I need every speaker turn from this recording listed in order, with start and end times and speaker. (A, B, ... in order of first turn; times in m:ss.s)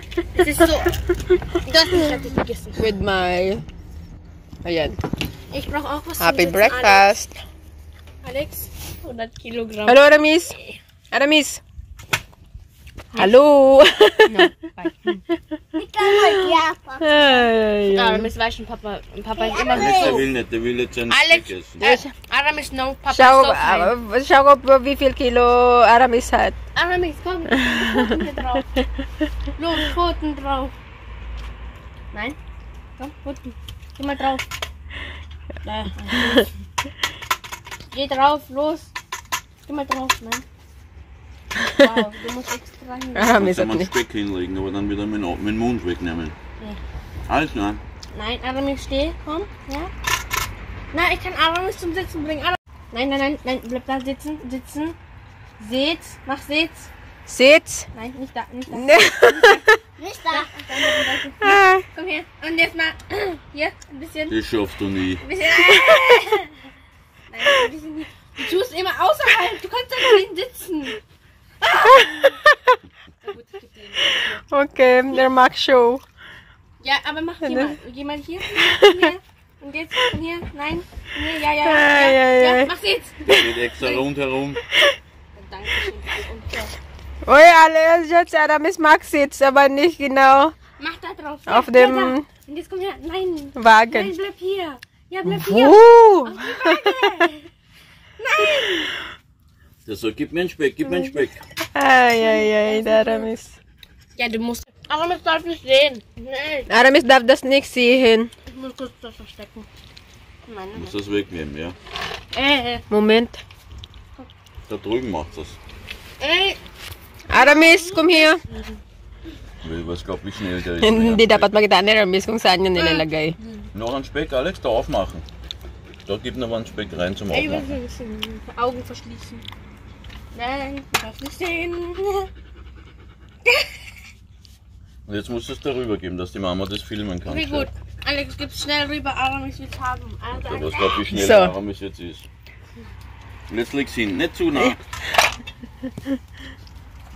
0:00.3-0:01.0 A
0:01.6-0:02.8 A
0:02.8-0:03.6 B
0:04.6-0:05.0 B
0:05.5-0:07.1 A
0:06.2-0:07.4 B
0:08.2-0:10.8 A
0:09.8-0:10.6 B
0:11.1-0:11.6 B
0:13.2-0:14.5 B
0:14.2-0:15.2 A
0:15.7-0:16.3 B
0:15.7-0:17.1 C
0:17.0-0:18.3 B
0:17.9-0:20.3 A
0:19.3-0:20.2 C
0:19.7-0:21.8 D
0:21.1-0:23.9 A
0:21.8-0:22.1 B
0:23.1-0:26.6 B
0:26.7-0:28.7 A
0:27.5-0:28.2 B
0:29.6-0:30.7 A
0:33.0-0:34.4 A
0:35.6-0:36.5 A
0:37.9-0:38.9 A
0:39.6-0:40.4 A
0:41.8-0:43.3 A
0:43.1-0:43.9 B
0:43.4-0:46.4 D
0:47.3-0:47.8 D
0:48.1-0:49.9 A
0:50.9-0:55.0 A
0:55.6-0:56.9 A
0:57.3-0:57.9 B
0:57.9-0:59.6 A
0:58.7-0:59.8 B
1:00.0-1:00.9 C
1:00.3-1:04.4 A
1:01.4-1:01.8 B
1:04.3-1:05.2 D
1:05.2-1:06.5 A
1:05.6-1:06.0 B
1:07.3-1:11.0 A
1:11.7-1:12.3 A
1:11.8-1:12.6 B
1:13.2-1:14.4 A
1:14.5-1:16.0 B
1:16.8-1:23.2 A
1:17.4-1:17.8 B
1:18.6-1:19.1 B
1:21.6-1:22.7 B
1:23.2-1:24.6 D
1:25.3-1:26.7 A
1:27.2-1:30.5 B
1:30.8-1:37.5 A
1:31.5-1:32.3 B
1:33.6-1:34.1 B
1:35.2-1:37.0 B
1:38.2-1:38.9 A
1:39.8-1:41.4 D
1:41.7-1:43.5 B
1:42.2-1:43.3 A
1:44.2-1:46.7 A
1:46.7-1:48.3 B
1:48.5-1:49.7 A
1:50.5-1:51.0 A
1:50.7-1:51.7 D
1:52.3-1:52.8 A
1:52.9-1:53.4 B
1:54.7-1:55.6 D
1:56.2-1:56.6 A
1:57.3-1:58.4 B
1:57.5-1:58.6 A
1:59.6-2:01.5 D
2:00.8-2:03.4 B
2:02.7-2:03.6 A
2:03.7-2:05.2 D
2:06.0-2:07.7 D
2:07.3-2:09.4 A
2:10.3-2:12.3 A
2:15.0-2:17.7 D
2:17.2-2:21.0 A
2:20.3-2:22.3 D
2:21.1-2:21.5 B
2:23.5-2:24.8 D